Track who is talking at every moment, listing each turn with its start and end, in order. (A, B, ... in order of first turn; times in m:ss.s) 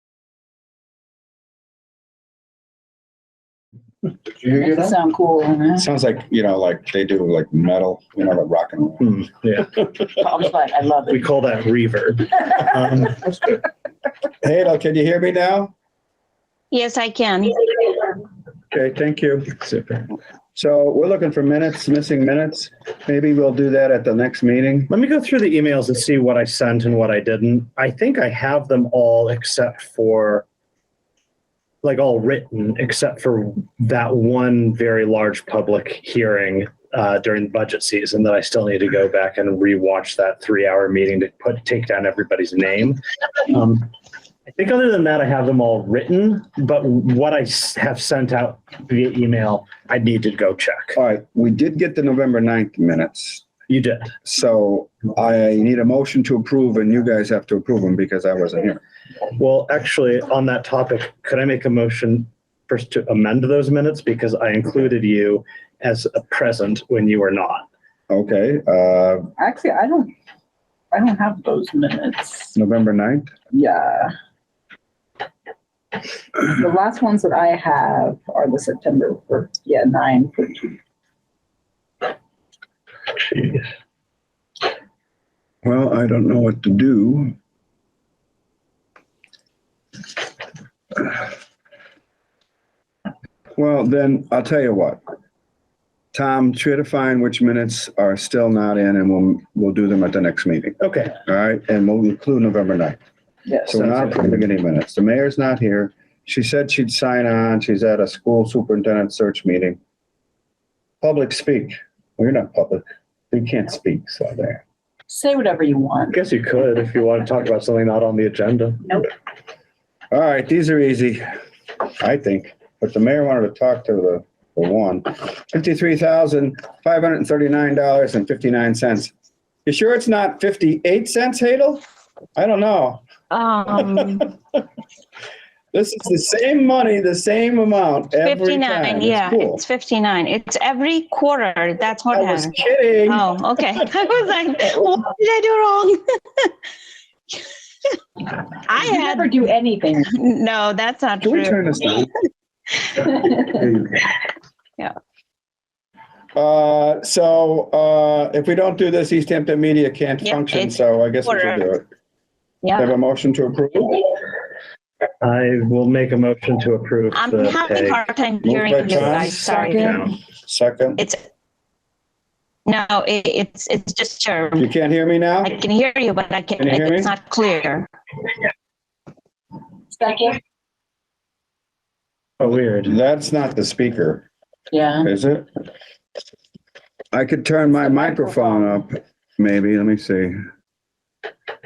0:04.4-0:05.9 A
0:05.8-0:09.1 B
0:09.0-0:09.7 C
0:10.0-0:11.3 A
0:11.1-0:13.2 C
0:14.4-0:15.7 B
0:16.7-0:17.9 D
0:18.7-0:19.6 B
0:19.6-0:20.1 C
0:20.6-0:24.9 B
0:24.9-0:30.5 C
0:31.8-0:43.9 C
0:44.5-0:51.0 C
0:51.0-0:53.4 B
0:53.7-0:54.2 C
0:54.2-0:58.8 B
0:59.4-1:07.7 C
1:08.1-1:09.3 B
1:09.4-1:10.1 A
1:10.9-1:12.5 A
1:12.6-1:13.3 B
1:13.5-1:14.1 A
1:16.4-1:20.7 A
1:23.2-1:23.7 C
1:25.6-1:27.3 B
1:33.6-1:35.0 B
1:36.1-1:43.0 B
1:40.8-1:41.2 C
1:43.6-1:49.8 B
1:43.7-1:44.4 C
1:51.0-1:54.6 B
1:55.1-1:56.3 A
1:56.1-1:59.0 C
2:00.1-2:01.2 B
2:02.0-2:09.1 B
2:09.7-2:11.8 B
2:12.4-2:13.0 B
2:13.3-2:14.3 D
2:15.7-2:19.6 B
2:18.2-2:26.5 D
2:22.1-2:23.2 B
2:28.6-2:29.4 D
2:28.8-2:30.1 A
2:30.1-2:31.9 D
2:31.2-2:32.1 B
2:36.4-2:41.8 B
2:40.2-2:41.7 D
2:42.6-2:42.9 D
2:42.8-2:44.1 B
2:45.2-2:48.0 C
2:47.1-2:50.1 D
2:48.4-2:49.6 B
2:48.9-2:50.1 C
2:49.3-2:50.1 A
2:50.4-2:51.0 B
2:52.7-2:54.7 D
2:54.6-2:55.5 B
2:55.4-2:57.9 D
2:56.6-2:57.1 B
2:59.9-3:00.4 A
3:02.4-3:03.0 C
3:02.8-3:04.3 B
3:04.7-3:05.1 A
3:05.0-3:05.5 B
3:07.1-3:10.4 B
3:07.9-3:08.5 A